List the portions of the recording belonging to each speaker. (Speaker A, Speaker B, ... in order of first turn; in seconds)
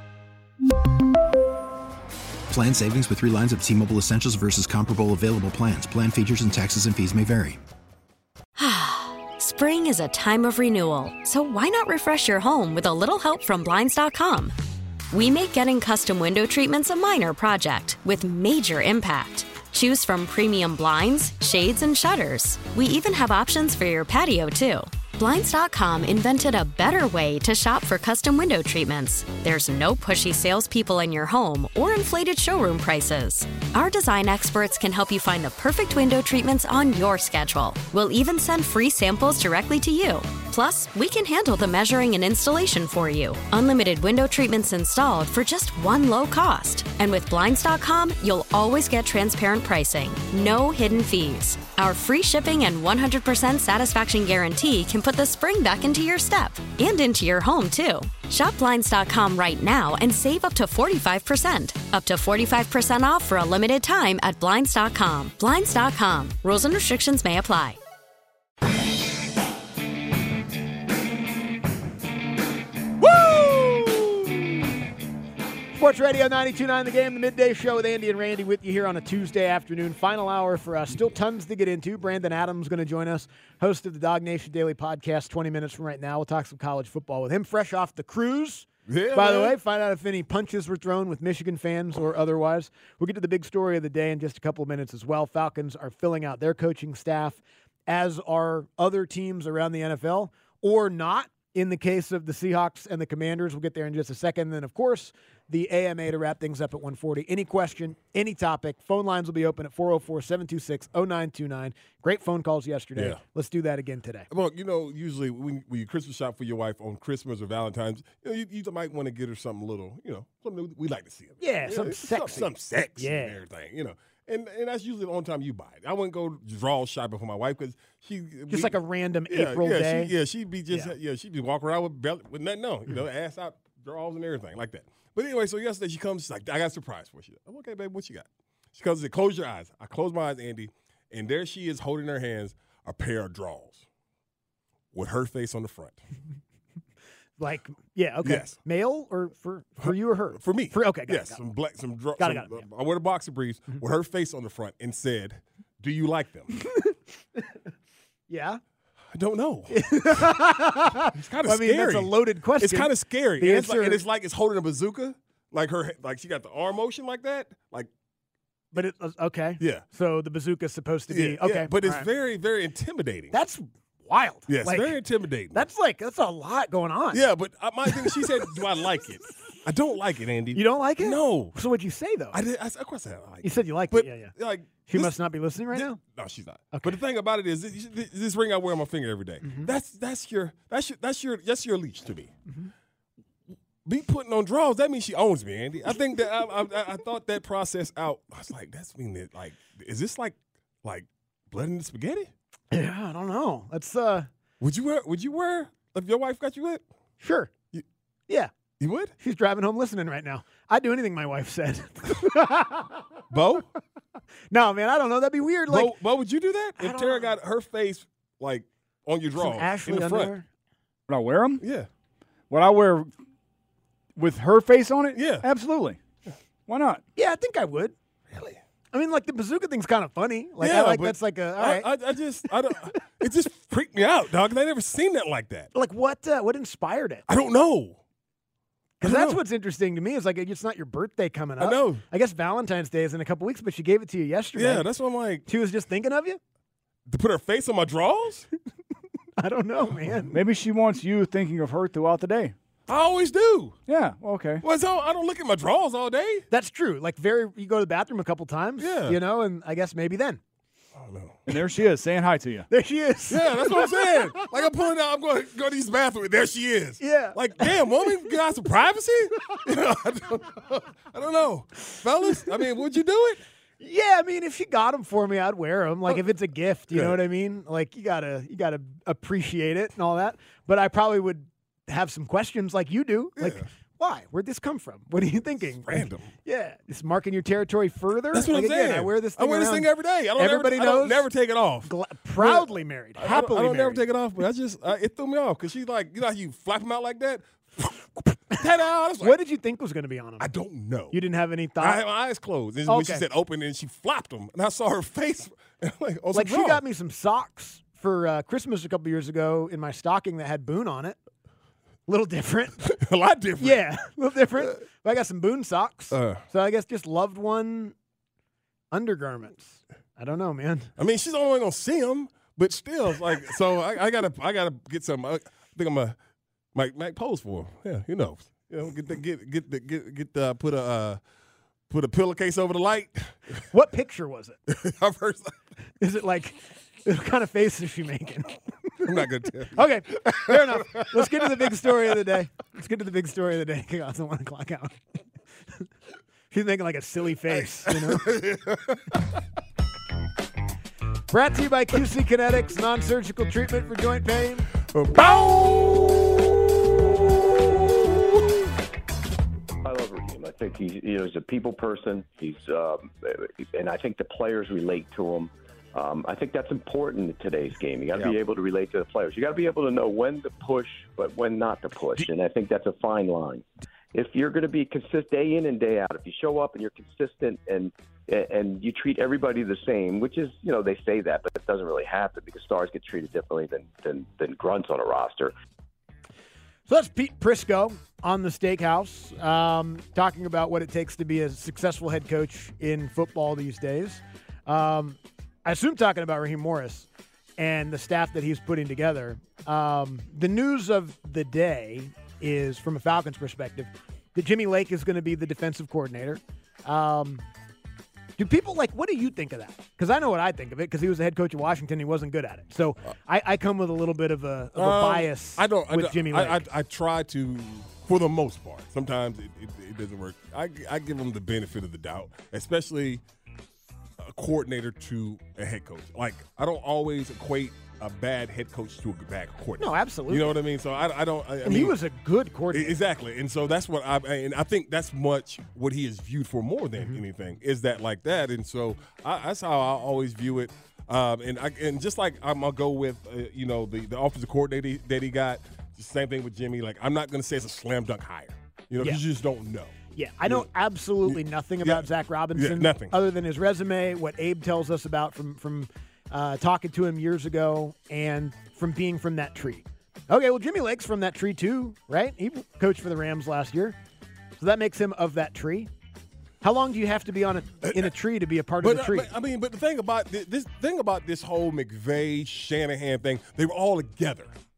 Speaker A: 2.5-7.6
Speaker B: 8.6-14.5, 15.1-67.8
Speaker C: 73.0-74.0, 75.8-114.3, 121.4-123.4, 128.5-130.1, 147.4-151.4, 152.2-152.6, 158.3-158.6, 159.7-164.0, 168.7-172.1, 173.3-175.0, 175.5-177.2, 177.9-178.2, 180.5-182.4, 183.4-184.3, 184.9-186.0, 186.7-187.0, 189.4-189.7, 202.7-204.3, 207.2-207.5, 209.2-213.0, 214.5-215.9, 216.8-217.3, 219.4-220.5, 227.2-227.9, 228.9-231.9, 235.7-237.2, 239.0-244.9, 245.5-246.4, 249.4-250.4, 256.5-260.4, 262.7-264.1, 267.0-267.7, 273.8-291.3, 291.9-294.0, 299.2-300.5, 301.1-302.0, 302.9-303.2, 306.3-311.2, 312.1-312.9, 313.6-317.9, 318.9-320.9, 333.7-334.6, 336.0-339.1, 339.7-345.0, 346.5-348.3, 351.3-354.7, 386.9-397.1, 397.6-407.4, 408.4-416.6, 429.8-430.6, 431.7-433.0, 450.1-464.0, 464.6-465.9, 466.6-469.3
Speaker D: 88.9-89.6, 114.3-128.8, 129.3-143.9, 144.9-146.0, 148.2-148.6, 149.8-156.5, 159.1-159.8, 161.1-167.9, 169.6-169.8, 171.1-173.3, 174.5-175.7, 177.1-181.6, 182.3-185.2, 185.7-192.3, 193.8-202.3, 204.6-206.8, 208.8-209.1, 213.3-213.7, 215.7-220.3, 221.6-221.9, 225.1-225.5, 228.3-228.6, 230.6-235.7, 237.3-238.0, 239.0-239.4, 241.6-242.0, 244.6-245.5, 247.1-248.5, 252.9-253.8, 254.6-256.4, 258.8-259.2, 260.9-261.4, 263.3-273.4, 276.9-277.2, 283.4-283.6, 285.9-286.3, 288.3-297.9, 298.5-299.4, 300.4-301.2, 301.8-306.8, 312.9-313.9, 316.1-316.4, 321.0-326.2, 326.8-331.2, 331.9-333.4, 334.7-335.5, 339.1-341.9, 347.5-349.2, 354.9-356.4, 414.8-423.2, 424.2-432.0, 432.7-449.9, 451.3-453.1, 467.8-468.1, 468.8-474.5
Speaker E: 221.1-221.6, 222.5-223.1, 224.2-226.0, 226.7-227.0, 250.3-252.5, 253.9-254.6, 261.5-262.7
Speaker F: 359.8-385.5